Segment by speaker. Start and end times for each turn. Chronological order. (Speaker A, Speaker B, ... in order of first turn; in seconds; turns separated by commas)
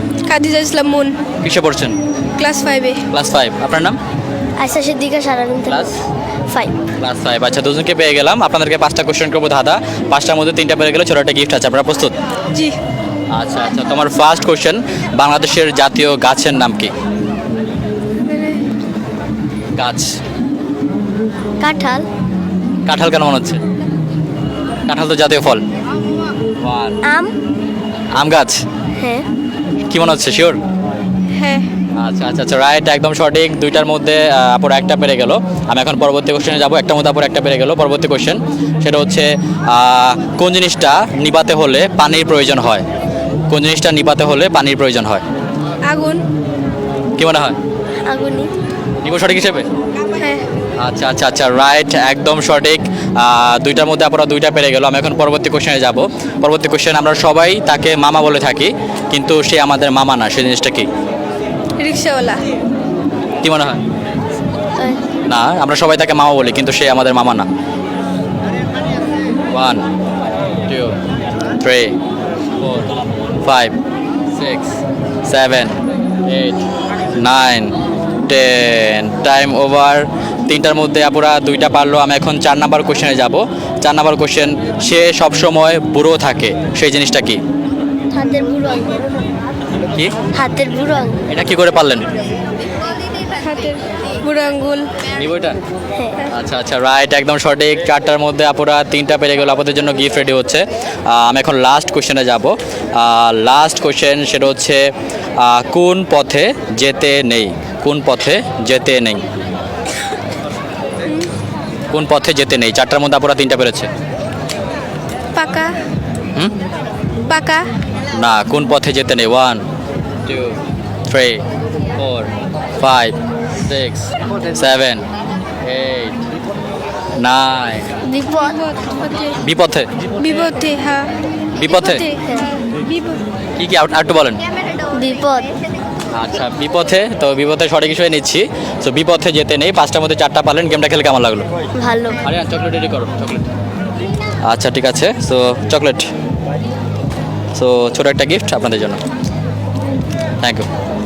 Speaker A: 0.2-1.2, Speaker B: 1.4-2.0, Speaker A: 2.4-3.0, Speaker B: 3.1-4.0, Speaker C: 4.6-5.9, Speaker B: 5.7-6.0, Speaker C: 6.5-6.8, Speaker B: 7.0-12.1, Speaker B: 13.3-16.9, Speaker A: 18.3-18.6, Speaker B: 19.8-20.2, Speaker C: 21.6-22.1, Speaker B: 22.9-23.6, Speaker B: 24.9-25.6, Speaker B: 26.6-27.0, Speaker C: 27.0-27.3, Speaker B: 28.1-28.6, Speaker C: 29.0-29.3, Speaker B: 29.9-30.6, Speaker A: 31.4-31.7, Speaker B: 31.9-42.9, Speaker B: 43.5-45.2, Speaker A: 45.8-46.2, Speaker B: 47.2-47.6, Speaker C: 48.0-48.5, Speaker B: 49.0-49.7, Speaker A: 50.2-50.4, Speaker B: 50.8-60.9, Speaker A: 61.8-62.4, Speaker B: 63.4-63.8, Speaker C: 64.8-65.0, Speaker B: 65.2-67.5, Speaker B: 69.5-69.8, Speaker B: 70.7-71.0, Speaker B: 71.6-72.0, Speaker B: 72.6-72.9, Speaker B: 73.4-73.8, Speaker B: 74.3-77.7, Speaker B: 78.3-87.4, Speaker C: 88.1-89.2, Speaker C: 90.3-91.2, Speaker B: 91.3-92.1, Speaker A: 93.3-94.9, Speaker B: 95.1-95.6, Speaker B: 96.3-109.2, Speaker B: 111.9-113.9, Speaker A: 115.3-115.7, Speaker A: 117.3-117.7, Speaker B: 118.1-119.6, Speaker B: 120.2-121.4, Speaker B: 122.0-125.0, Speaker B: 125.6-126.2, Speaker B: 127.2-127.9, Speaker C: 128.0-128.6, Speaker A: 128.5-129.4, Speaker B: 129.4-129.9, Speaker A: 130.2-131.1, Speaker B: 131.6-132.1, Speaker A: 131.7-133.2, Speaker C: 132.2-132.5, Speaker B: 133.6-134.4, Speaker C: 134.9-135.5, Speaker B: 136.1-141.5, Speaker C: 141.8-142.2, Speaker B: 142.2-143.5, Speaker B: 144.4-146.1, Speaker B: 147.5-149.0, Speaker B: 150.4-150.7